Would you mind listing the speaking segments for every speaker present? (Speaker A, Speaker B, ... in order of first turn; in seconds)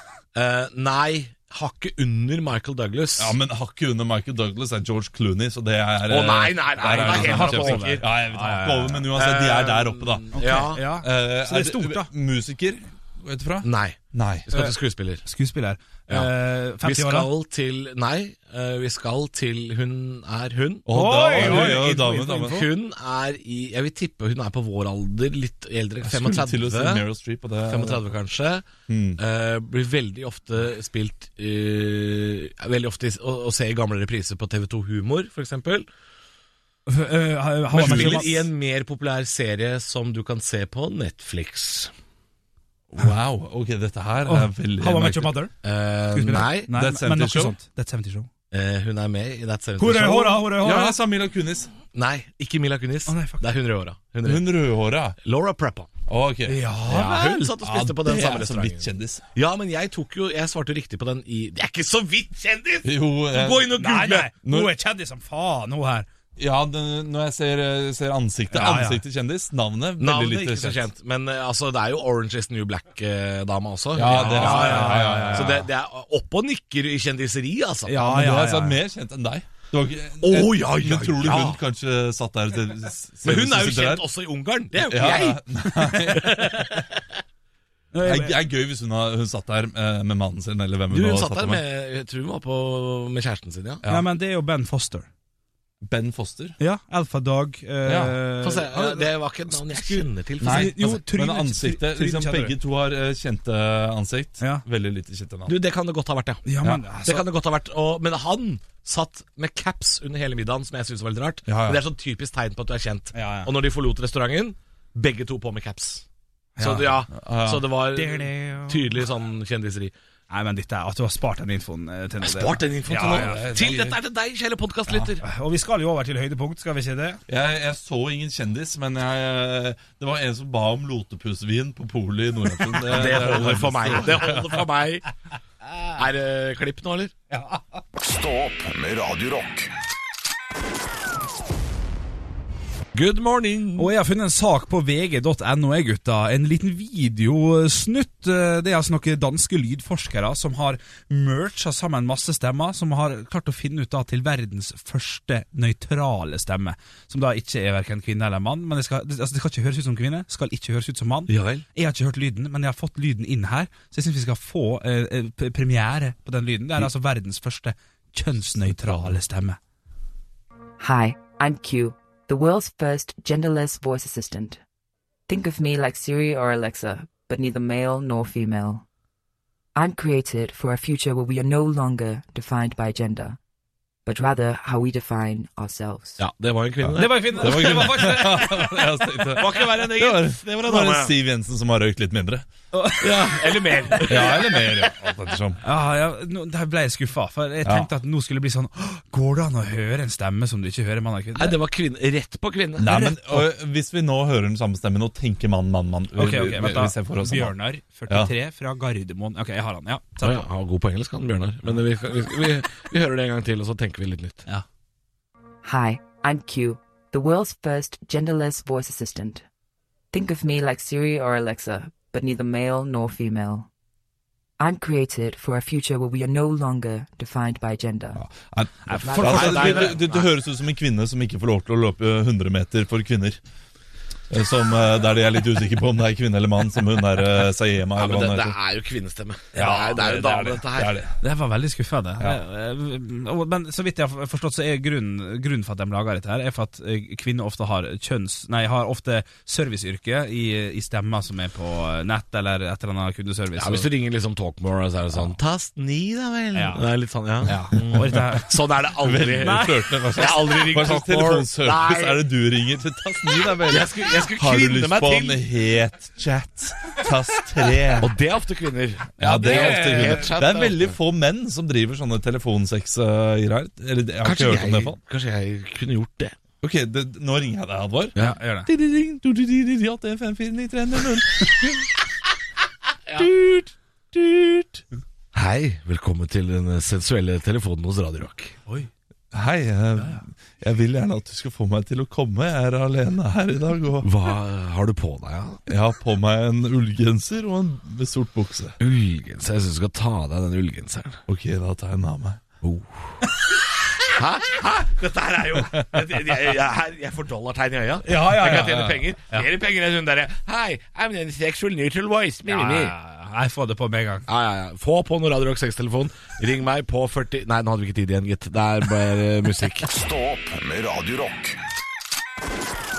Speaker A: 0.3-3.4, 6.0-8.0, 9.1-10.9, 13.6-15.2, 16.1-27.0, 27.6-35.9, 37.7-41.9, 45.6-46.7, 48.5-50.4, 51.9-54.6, 55.2-55.9, 56.9-64.3, 70.0-78.0, 80.2-81.6, 83.2-87.0, 90.9-93.8, 98.4-101.0, 105.5-106.5, 107.0-116.0, 116.6-119.9, 122.2-125.2, 132.9-135.1, 135.9-137.1, 142.9-143.9, 161.3-161.6, 186.2-188.1, 189.4-191.1, 193.0-194.8, 201.3-202.9, 210.2-214.4, 229.1-230.3, 237.9-241.0, 253.6-262.2, 263.6-265.4, 268.0-270.9, 274.2-276.3, 283.1-283.3, 285.3-288.6, 294.0-295.6, 298.8-301.2, 302.6-303.1, 304.0-312.9, 314.3-319.9
Speaker B: 3.2-14.5, 20.9-22.7, 26.0-28.1, 28.9-29.2, 37.7-38.3, 42.9-45.3, 46.7-47.5, 50.5-51.7, 54.2-55.1, 56.1-56.6, 57.6-59.2, 62.8-63.8, 64.4-64.7, 66.4-70.8, 73.9-75.6, 78.0-84.0, 84.8-86.7, 88.0-91.6, 95.8-96.6, 97.8-98.2, 100.4-105.5, 111.5-111.8, 117.1-117.7, 122.9-124.0, 127.3-134.6, 168.8-169.1, 186.8-192.4, 194.1-195.6, 197.6-197.9, 202.8-207.5, 228.2-233.4, 234.3-238.6, 239.6-241.1, 257.7-258.4, 259.0-268.1, 269.2-275.0, 276.6-278.1, 278.6-281.9, 283.2-283.5, 284.1-284.8, 289.3-294.1, 295.7-298.8, 301.3-302.4, 308.4-309.0
Speaker C: 6.9-9.1, 10.3-12.1, 15.2-17.3, 20.9-22.0, 36.9-38.4, 44.2-45.5, 46.1-48.3, 49.8-51.0, 53.1-53.4, 56.5-57.5, 63.7-66.0, 68.5-69.0, 74.0-75.6, 77.8-78.8, 87.9-88.3, 93.8-95.1, 96.6-102.5, 106.5-107.3, 113.1-113.5, 116.6-117.0, 117.9-118.9, 120.3-123.5, 125.2-127.2, 137.3-137.6, 143.8-169.6, 186.9-189.7, 192.7-194.7, 195.6-201.6, 202.8-203.5, 206.2-210.5, 228.9-229.9, 239.6-239.9, 241.2-253.9, 256.5-256.9, 257.4-258.6, 259.4-260.6, 269.2-270.3, 278.2-278.7, 308.0-309.4, 312.4-314.2
Speaker D: 137.9-139.7, 319.9-321.6
Speaker E: 170.8-174.6, 175.3-178.8, 179.7-183.4, 184.1-186.2, 215.6-219.4, 220.1-223.7, 224.6-228.2, 229.0-229.8